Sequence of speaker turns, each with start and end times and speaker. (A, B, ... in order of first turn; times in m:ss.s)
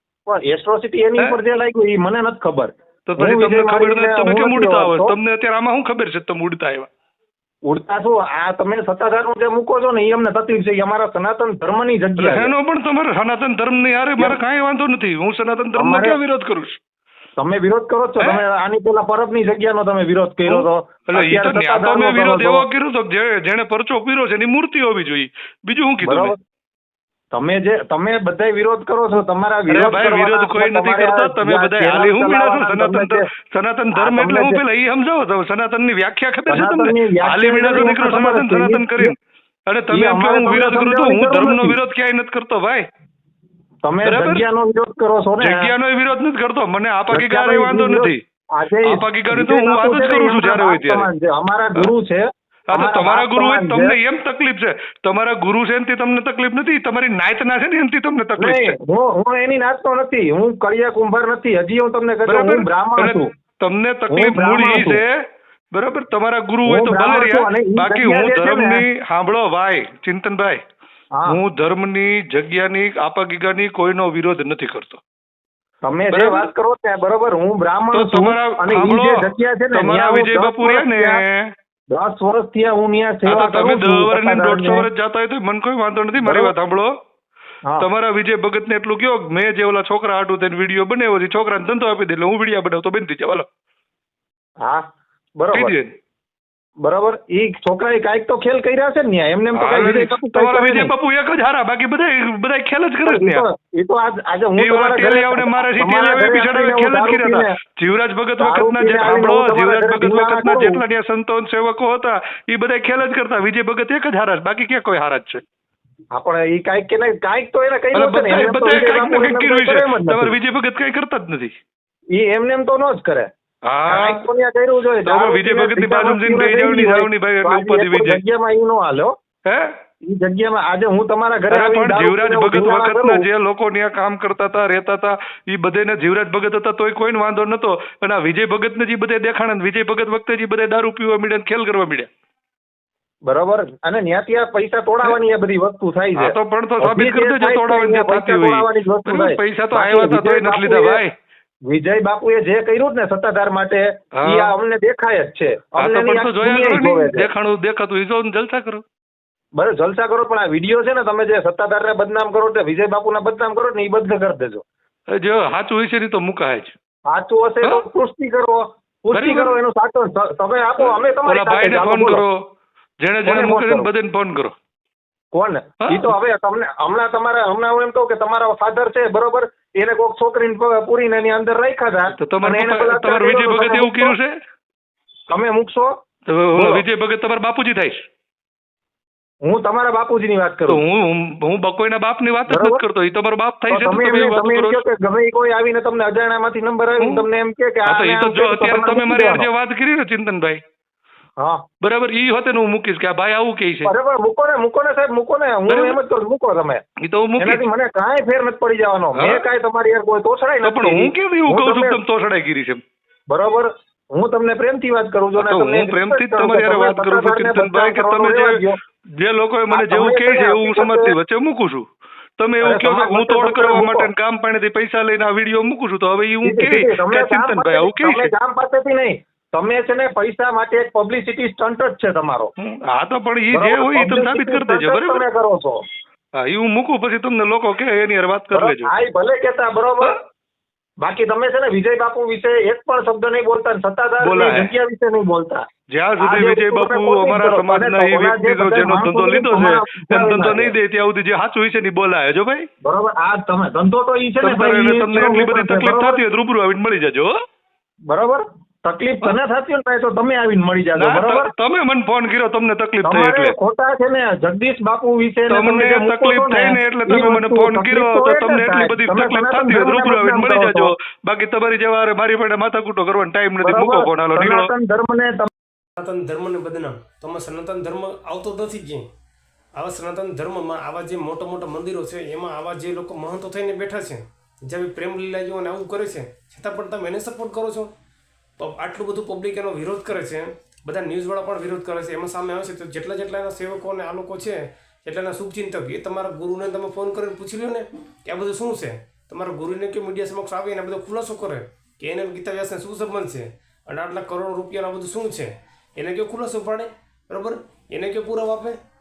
0:00.3-0:05.1 A
0:03.1-0:06.9 B
0:07.7-0:12.5 A
0:12.2-0:16.8 B
0:15.7-0:16.2 A
0:17.4-0:22.6 A
0:20.4-0:26.3 B
0:26.0-0:26.4 A
0:27.3-0:33.3 A
0:29.7-0:39.2 B
0:33.9-0:34.6 A
0:36.5-0:39.1 A
0:39.7-0:42.8 B
0:39.9-0:41.8 A
0:43.8-0:45.7 A
0:44.0-0:44.4 B
0:45.4-0:48.2 B
0:47.1-0:54.0 A
0:48.9-0:51.1 B
0:52.7-0:58.7 B
0:58.4-1:03.3 A
1:02.2-1:05.1 B
1:04.1-1:05.0 A
1:05.7-1:10.6 B
1:06.6-1:08.8 A
1:11.3-1:15.0 B
1:15.8-1:21.2 A
1:16.1-1:16.5 B
1:17.9-1:21.5 B
1:21.9-1:24.9 A
1:23.2-1:26.9 B
1:26.2-1:26.5 A
1:27.8-1:33.4 B
1:35.4-1:35.7 A
1:35.5-1:35.9 B
1:36.8-1:40.9 A
1:39.5-1:43.4 B
1:43.0-1:47.5 A
1:44.6-1:55.4 B
1:48.4-1:50.8 A
1:56.1-2:00.4 A
1:57.9-2:01.5 B
2:02.1-2:03.3 A
2:03.6-2:04.2 B
2:03.9-2:09.1 A
2:05.0-2:08.2 B
2:09.4-2:09.7 B
2:10.0-2:13.2 A
2:11.5-2:22.1 B
2:23.2-2:31.0 A
2:26.2-2:31.1 B
2:31.7-2:37.3 A
2:34.2-2:34.5 B
2:35.8-2:38.8 B
2:39.6-2:44.6 A
2:45.1-2:46.7 B
2:47.1-2:52.2 A
2:49.1-2:49.6 B
2:50.8-2:52.4 B
2:53.0-2:54.5 B
2:53.2-2:53.9 A
2:55.3-3:04.1 A
2:55.8-2:56.1 B
3:02.2-3:04.3 B
3:05.3-3:05.9 A
3:06.3-3:08.0 B
3:06.5-3:06.8 A
3:09.4-3:10.8 A
3:10.7-3:14.8 B
3:12.5-3:12.8 A
3:13.7-3:19.5 A
3:17.0-3:17.2 B
3:17.8-3:20.6 B
3:21.8-3:23.9 B
3:23.8-3:26.8 A
3:25.7-3:26.0 B
3:27.0-3:27.6 B
3:27.4-3:32.0 A
3:29.2-3:29.4 B
3:30.6-3:32.8 B
3:33.3-3:38.8 A
3:35.4-3:38.5 B
3:39.2-3:41.8 B
3:39.7-3:41.1 A
3:42.4-3:48.3 B
3:42.6-3:44.1 A
3:46.4-3:52.5 A
3:52.6-3:55.2 B
3:53.5-3:55.8 A
3:56.4-3:58.9 B
3:58.5-4:00.2 A
4:01.0-4:05.6 A
4:04.2-4:04.7 B
4:05.9-4:12.7 B
4:06.2-4:10.7 A
4:12.8-4:16.2 A
4:14.4-4:17.3 B
4:18.1-4:21.5 A
4:21.0-4:23.6 B
4:23.0-4:30.9 A
4:25.5-4:34.7 B
4:33.6-4:35.5 A
4:36.0-4:39.0 C
4:39.8-4:47.9 C
4:48.6-5:08.8 C